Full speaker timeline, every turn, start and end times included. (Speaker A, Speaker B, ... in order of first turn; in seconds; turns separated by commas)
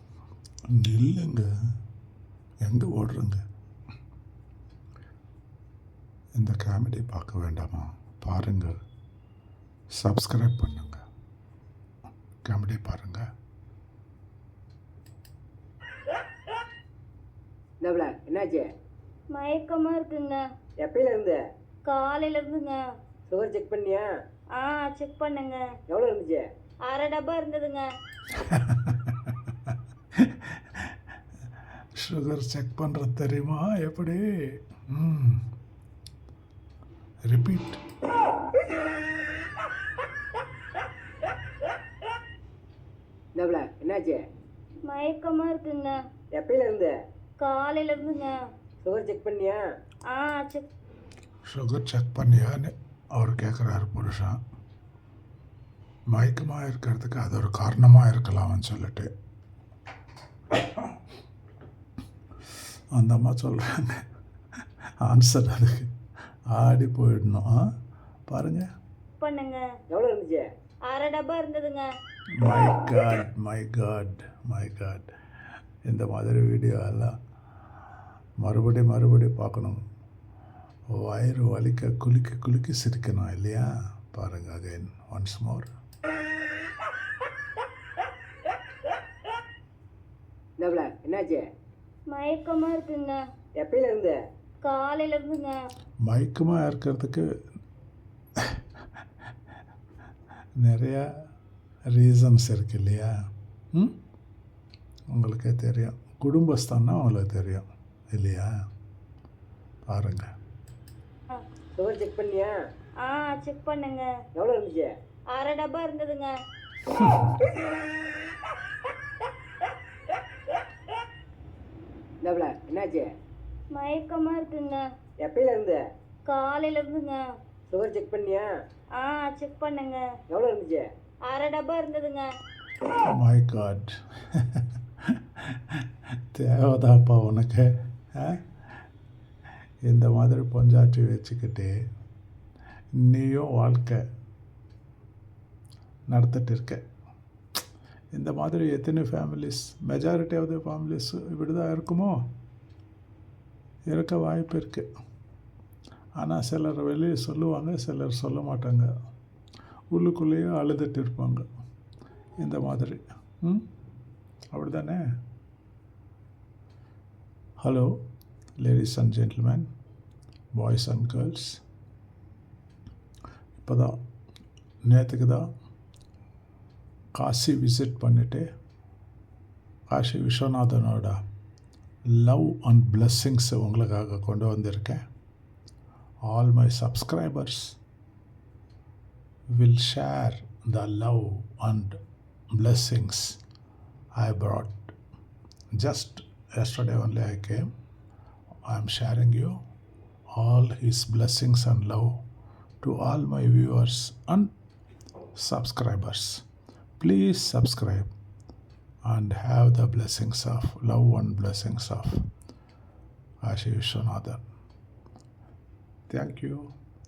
Speaker A: 0.7-1.5, Speaker A: 2.6-3.4, Speaker A: 6.3-8.8, Speaker A: 9.9-11.0, Speaker A: 12.4-13.2, Speaker B: 17.8-18.7, Speaker C: 19.3-20.4, Speaker B: 20.8-21.4, Speaker C: 21.8-22.8, Speaker B: 23.3-24.1, Speaker C: 24.5-25.7, Speaker B: 25.9-26.5, Speaker C: 26.9-27.9, Speaker A: 28.3-30.8, Speaker A: 31.9-35.4, Speaker A: 37.2-37.8, Speaker B: 43.3-44.2, Speaker C: 44.8-46.0, Speaker B: 46.3-47.0, Speaker C: 47.4-48.4, Speaker B: 48.8-49.6, Speaker C: 50.1-50.7, Speaker A: 51.5-54.4, Speaker A: 56.1-59.1, Speaker A: 62.9-64.0, Speaker A: 65.0-65.9, Speaker A: 66.5-67.5, Speaker A: 68.3-68.7, Speaker C: 69.2-69.7, Speaker B: 69.9-70.5, Speaker C: 70.9-71.9, Speaker A: 72.4-75.1, Speaker A: 75.9-77.1, Speaker A: 78.4-79.8, Speaker A: 80.9-85.7, Speaker B: 90.6-91.5, Speaker C: 92.1-93.2, Speaker B: 93.6-94.2, Speaker C: 94.6-95.6, Speaker A: 96.0-97.2, Speaker A: 100.6-101.1, Speaker A: 101.9-103.1, Speaker A: 105.1-108.5, Speaker A: 109.9-110.3, Speaker B: 111.8-112.5, Speaker C: 113.0-114.1, Speaker B: 114.3-114.9, Speaker C: 115.3-116.3, Speaker B: 122.2-123.1, Speaker C: 123.7-124.8, Speaker B: 125.2-125.8, Speaker C: 126.2-127.2, Speaker B: 127.7-128.5, Speaker C: 128.9-130.1, Speaker B: 130.3-130.9, Speaker C: 131.3-132.3, Speaker A: 133.0-138.4, Speaker A: 139.8-141.7, Speaker A: 142.9-144.0, Speaker A: 146.1-146.8, Speaker A: 148.1-152.2, Speaker A: 153.9-154.9, Speaker A: 156.2-158.9, Speaker A: 159.9-161.4, Speaker A: 162.4-163.7, Speaker A: 164.5-165.0, Speaker A: 167.6-167.9, Speaker A: 168.6-169.7, Speaker A: 170.5-171.6, Speaker A: 173.6-174.0, Speaker A: 174.8-175.5, Speaker A: 177.1-178.5, Speaker A: 179.9-181.2, Speaker A: 182.1-185.0, Speaker A: 186.2-187.8, Speaker A: 189.5-192.0, Speaker A: 192.5-193.4, Speaker A: 194.1-194.9, Speaker A: 195.8-197.7, Speaker A: 198.6-199.6, Speaker A: 200.3-202.2, Speaker A: 202.8-204.5, Speaker A: 205.3-206.4, Speaker A: 207.0-208.1, Speaker A: 209.0-212.2, Speaker A: 213.4-214.4, Speaker A: 216.1-216.7